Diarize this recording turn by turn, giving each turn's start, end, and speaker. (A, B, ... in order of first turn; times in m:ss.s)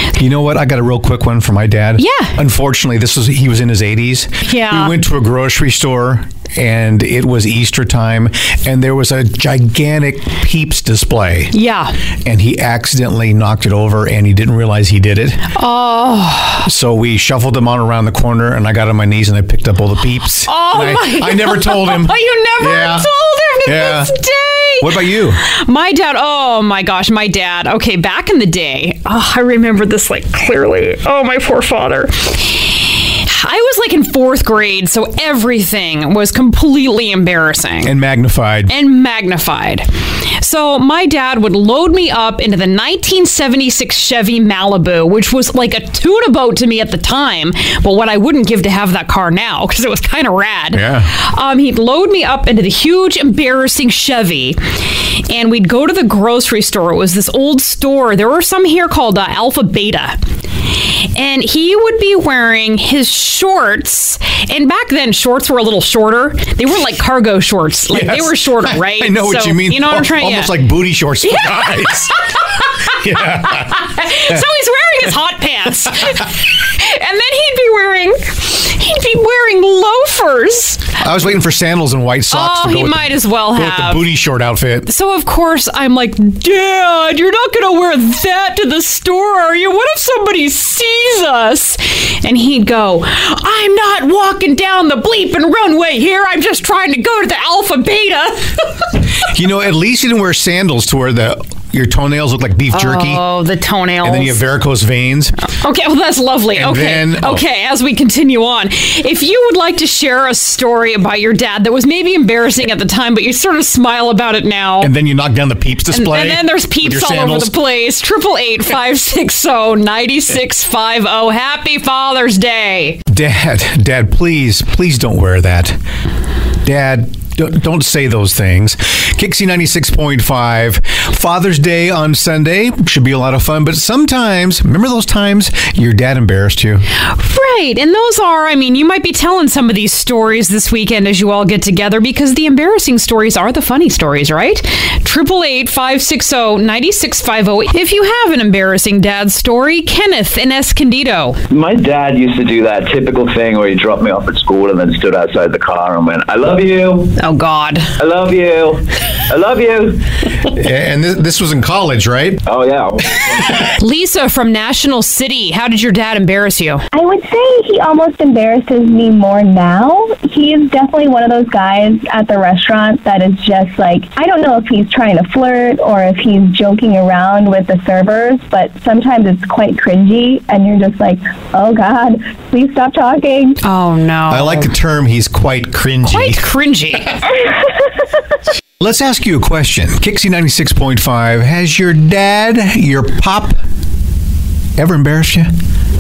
0:00.2-0:11.5 A
0:02.0-0:02.3 B
0:04.5-0:04.9 B
0:11.5-0:11.9 B
0:12.2-0:15.5 A
0:15.6-0:16.7 B
0:16.6-0:23.1 A
0:20.5-0:37.9 B
0:23.7-0:24.1 A
0:24.8-0:25.4 A
0:37.8-0:38.7 A
0:38.7-0:39.9 B
0:40.4-1:00.2 B
0:50.7-0:51.1 A
1:00.7-1:10.6 B
1:07.9-1:12.2 A
1:11.2-1:20.9 B
1:12.9-1:13.8 A
1:21.0-1:24.9 A
1:22.3-1:24.0 B
1:24.9-1:38.6 B
1:39.3-1:43.2 A
1:42.7-1:44.4 B
1:44.0-1:45.4 A
1:45.4-1:54.9 B
1:46.5-1:47.4 A
1:54.8-1:57.5 A
1:55.9-2:03.0 B
2:03.1-2:05.8 A
2:06.6-2:16.8 A
2:17.1-2:31.4 B
2:31.5-2:37.2 C
2:37.2-2:37.9 B
2:38.0-2:40.0 C
2:40.4-2:42.4 A
2:42.5-2:43.7 C
2:43.8-2:46.8 B
2:46.9-3:03.6 D
3:03.6-3:04.7 B
3:04.3-3:06.4 A
3:06.0-3:07.1 B
3:08.8-3:13.6 A
3:14.8-3:15.5 A